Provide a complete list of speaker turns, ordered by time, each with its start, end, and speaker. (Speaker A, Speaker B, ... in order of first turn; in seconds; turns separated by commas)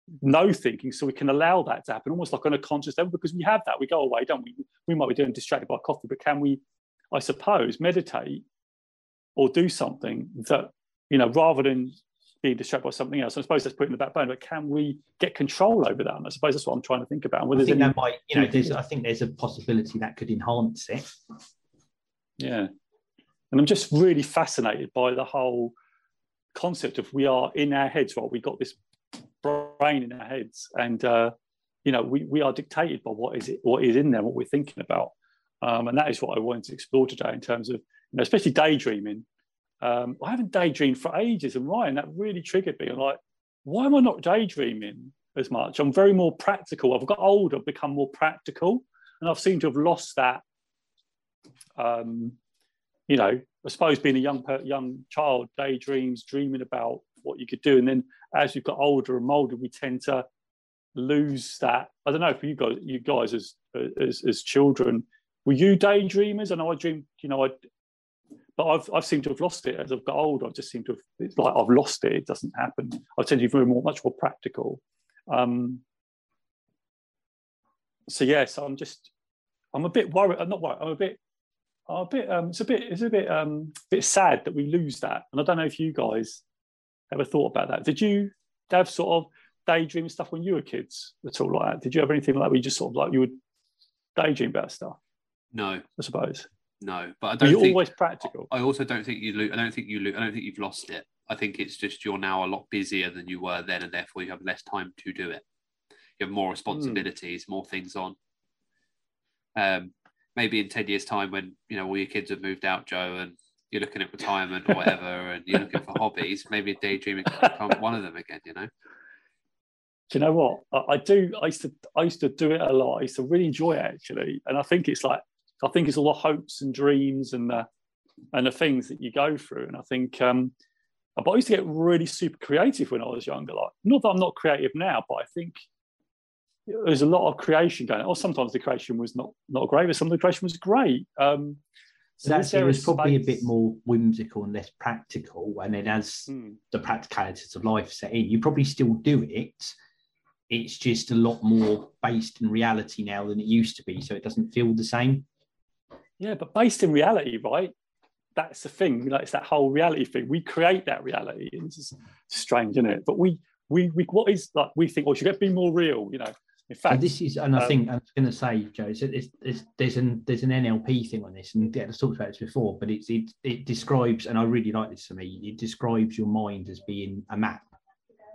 Speaker A: 0.2-6.6, Speaker A: 7.1-8.4, Speaker A: 9.4-18.7, Speaker B: 17.5-21.1, Speaker A: 22.4-22.7, Speaker A: 23.5-25.7, Speaker A: 26.5-31.3, Speaker A: 31.9-39.2, Speaker A: 39.8-50.4, Speaker A: 51.8-52.4, Speaker A: 53.1-60.2, Speaker A: 61.0-67.6, Speaker A: 68.6-75.8, Speaker A: 78.1-79.1, Speaker A: 79.7-81.2, Speaker A: 81.9-86.4, Speaker A: 87.1-93.4, Speaker A: 94.2-95.0, Speaker C: 95.5-95.9, Speaker A: 96.0-96.5, Speaker C: 96.8-97.8, Speaker A: 97.4-98.5, Speaker C: 98.5-105.4, Speaker C: 106.2-108.2, Speaker A: 106.7-107.0, Speaker C: 109.6-118.7, Speaker A: 120.1-127.7, Speaker A: 128.3-130.5, Speaker A: 131.2-135.6, Speaker A: 136.7-141.6, Speaker A: 142.2-143.5, Speaker B: 142.2-149.8, Speaker A: 146.3-146.6, Speaker B: 150.5-155.2, Speaker A: 156.2-157.7, Speaker A: 158.4-167.8, Speaker B: 166.9-177.7